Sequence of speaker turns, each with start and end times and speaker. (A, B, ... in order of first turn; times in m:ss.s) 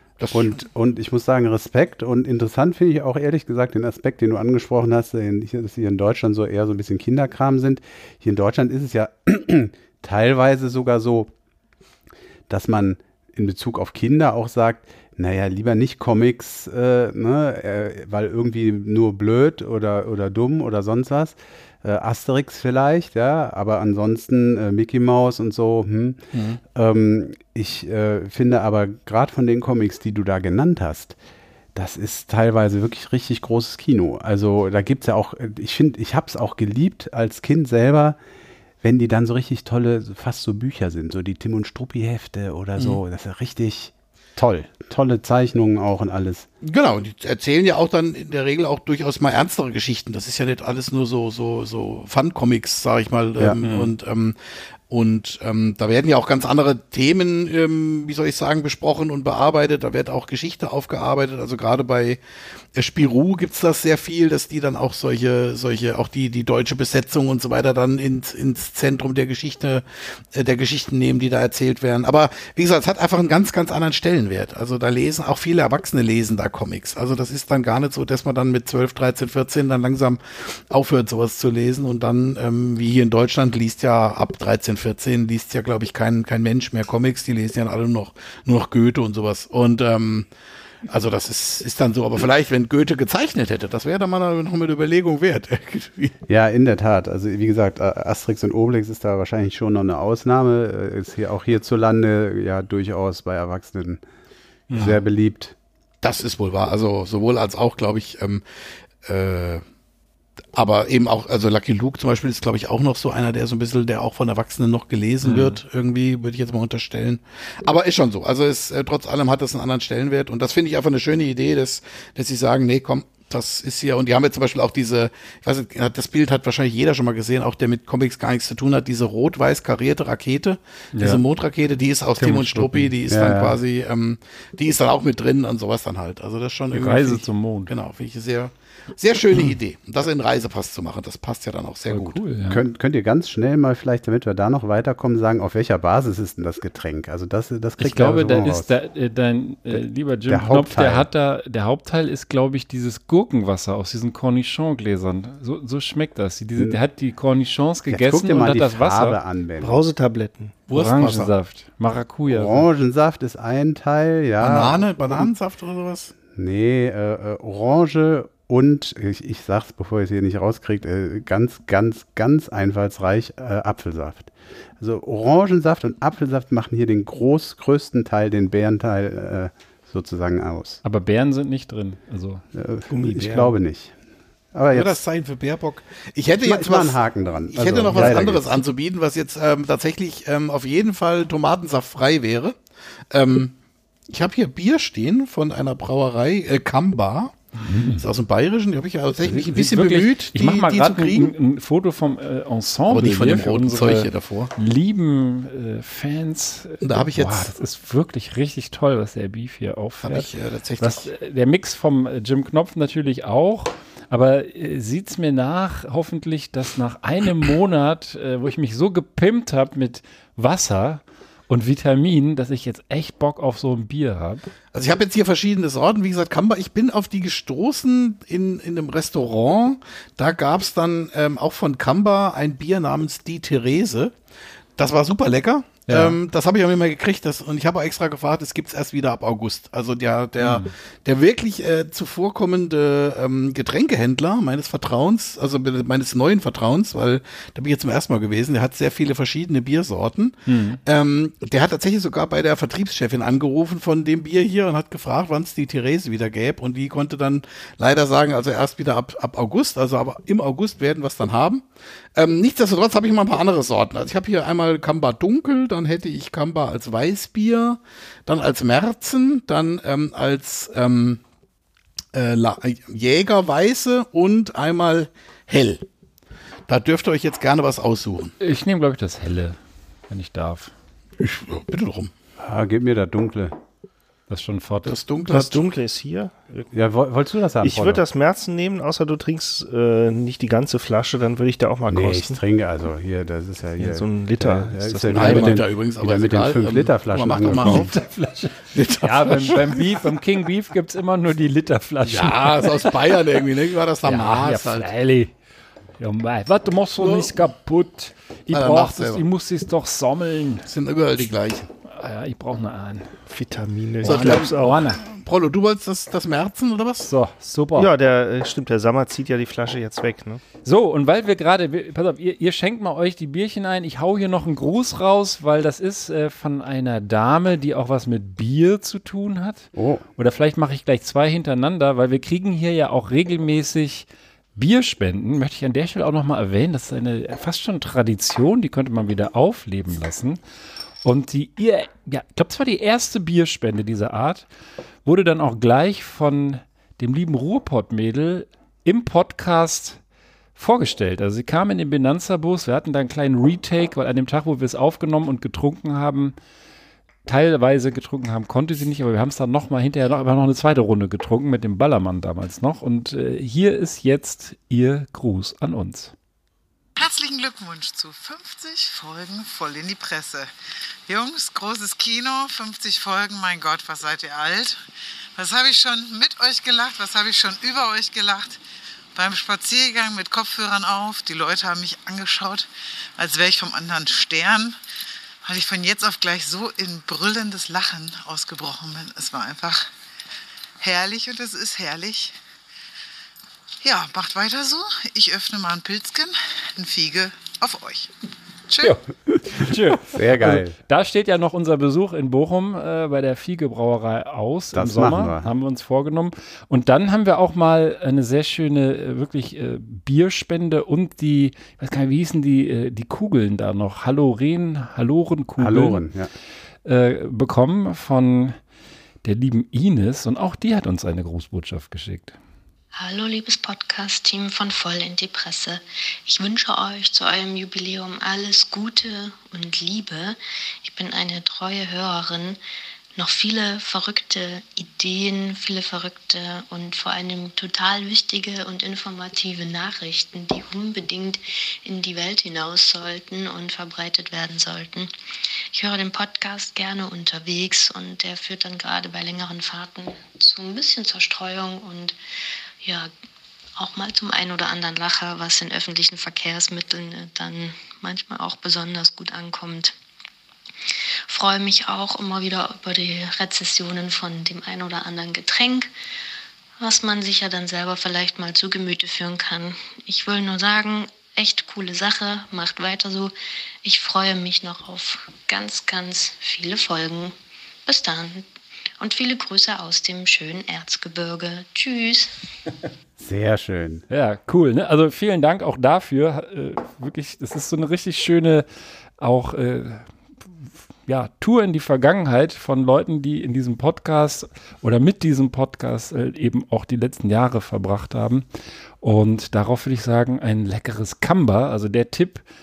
0:00.2-0:00.6 A
0:00.3-0:11.3 B
0:12.5-0:31.2 B
0:31.8-0:38.2 B
0:38.8-0:46.5 B
0:46.6-0:54.4 A
0:53.6-0:53.9 C
0:54.9-1:02.2 A
1:02.7-1:30.3 A
1:30.9-1:36.2 A
1:36.3-1:44.0 B
1:44.7-1:45.0 C
1:44.7-1:45.6 B
1:46.0-1:48.4 A
1:49.0-1:49.6 A
1:50.6-2:22.2 A
1:55.2-1:55.6 C
2:10.9-2:11.2 C
2:12.2-2:12.9 C
2:13.1-2:13.6 B
2:16.7-2:17.7 C
2:21.9-2:22.6 C
2:22.5-2:28.7 B
2:27.8-2:39.2 C
2:29.7-2:31.1 B
2:37.9-2:39.8 B
2:39.6-2:40.6 D
2:40.7-2:41.3 A
2:40.7-2:42.7 C
2:42.3-2:45.3 B
2:44.4-2:46.2 A
2:46.3-3:00.8 B
3:00.8-3:02.4 C
3:02.5-3:03.9 B
3:02.9-3:03.5 D
3:04.5-3:05.0 B
3:04.7-3:07.0 A
3:06.4-3:08.6 B
3:07.5-3:12.6 A
3:07.9-3:08.3 D
3:13.1-3:13.6 A
3:14.1-3:17.4 A
3:17.6-3:18.0 C
3:17.9-3:21.3 A
3:19.2-3:44.4 C
3:22.9-3:24.5 A
3:26.8-3:27.5 A
3:30.0-3:31.1 A
3:44.7-3:54.1 A
3:49.3-3:49.6 C
3:54.8-4:21.6 A
3:55.9-3:56.2 C
4:00.4-4:00.7 C
4:10.5-4:10.8 C
4:22.2-4:31.2 A
4:32.1-4:35.8 A
4:36.7-4:38.3 A
4:38.4-4:39.6 C
4:40.1-4:40.7 C
4:41.2-4:42.1 A
4:42.4-4:43.6 B
4:44.3-4:45.0 C
4:44.9-4:45.7 A
4:45.4-4:46.7 D
4:46.7-4:48.0 B
4:47.6-4:52.4 D
4:51.9-4:57.9 B
4:53.8-4:55.6 D
4:55.2-4:57.9 A
4:57.5-5:03.0 C
4:58.7-4:59.8 A
5:02.0-5:04.9 A
5:04.0-5:05.3 C
5:06.0-5:10.7 C
5:07.0-5:07.4 A
5:08.5-5:09.2 A
5:10.7-5:11.7 A
5:11.9-5:13.2 C
5:13.3-5:14.8 D
5:14.0-5:15.0 C
5:14.0-5:17.1 A
5:17.1-5:17.9 C
5:17.8-5:20.4 D
5:20.6-5:40.4 C
5:29.7-5:30.1 B
5:41.0-5:44.5 C
5:45.0-5:50.0 C
5:50.6-5:56.4 C
5:57.3-6:06.1 C
6:07.0-6:10.5 E
6:11.1-6:14.8 E
6:15.4-6:18.6 E
6:19.2-6:24.8 E
6:25.4-6:29.9 E
6:30.8-6:32.4 E
6:33.8-6:38.1 E
6:38.7-6:39.0 E
6:39.6-6:56.0 C
6:40.0-6:40.8 B
6:44.7-6:45.5 B
6:55.6-6:56.3 B
6:56.8-6:58.6 C
6:59.2-7:02.4 C
7:03.0-7:12.6 F
7:13.2-7:25.1 F
7:25.7-7:32.2 F
7:32.8-7:33.1 F
7:33.8-7:40.0 F
7:41.3-7:45.9 F
7:46.8-7:58.5 F
7:59.0-8:02.3 F
8:03.2-8:04.0 B
8:04.1-8:08.7 C
8:09.2-8:10.1 C
8:10.6-8:18.4 C
8:19.0-8:22.4 C